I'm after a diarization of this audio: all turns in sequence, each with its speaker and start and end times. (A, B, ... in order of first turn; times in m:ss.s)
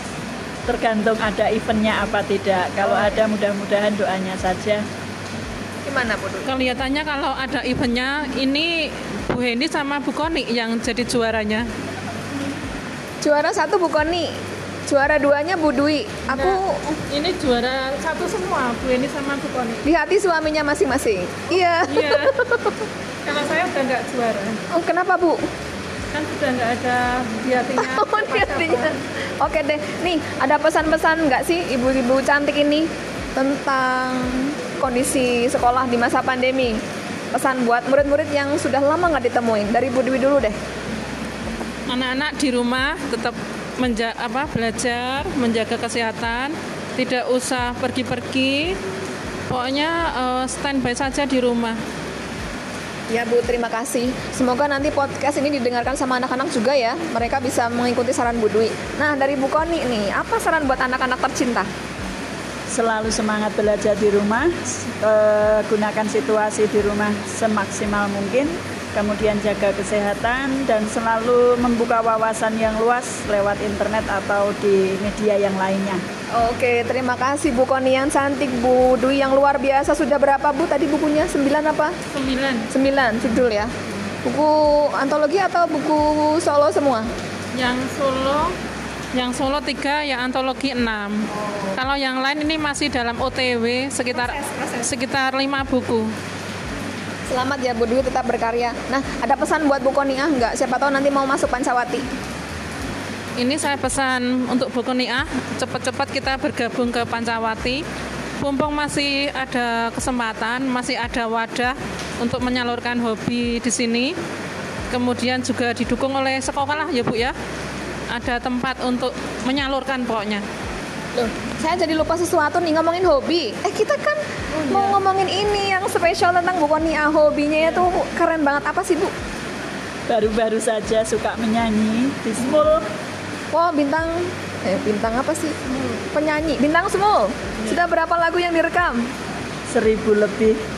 0:00.7-0:04.8 A
0:05.8-0:06.5 B
0:06.4-0:11.7 C
0:13.2-0:14.3 B
0:14.9-0:16.9 B
0:16.3-0:19.8 C
0:19.8-0:22.7 B
0:21.9-0:24.6 C
0:24.7-0:25.4 B
0:26.1-0:28.9 C
0:27.8-0:36.8 B
0:37.3-0:40.6 B
0:41.9-0:48.8 C
0:49.5-0:51.8 C
0:53.1-1:01.7 B
1:02.7-1:16.0 A
1:16.4-1:22.0 B
1:22.1-1:22.7 C
1:22.7-1:23.7 B
1:24.2-1:27.1 B
1:27.5-1:28.6 C
1:29.1-1:36.1 C
1:31.4-1:31.8 B
1:34.1-1:34.9 B
1:37.3-1:42.1 B
1:43.4-1:47.8 C
1:48.4-1:54.2 C
1:54.9-1:57.4 C
1:58.1-2:00.4 C
2:01.4-2:09.1 B
2:04.6-2:05.0 C
2:10.1-2:12.9 A
2:13.5-2:15.6 B
2:16.1-2:19.1 B
2:19.7-2:20.6 A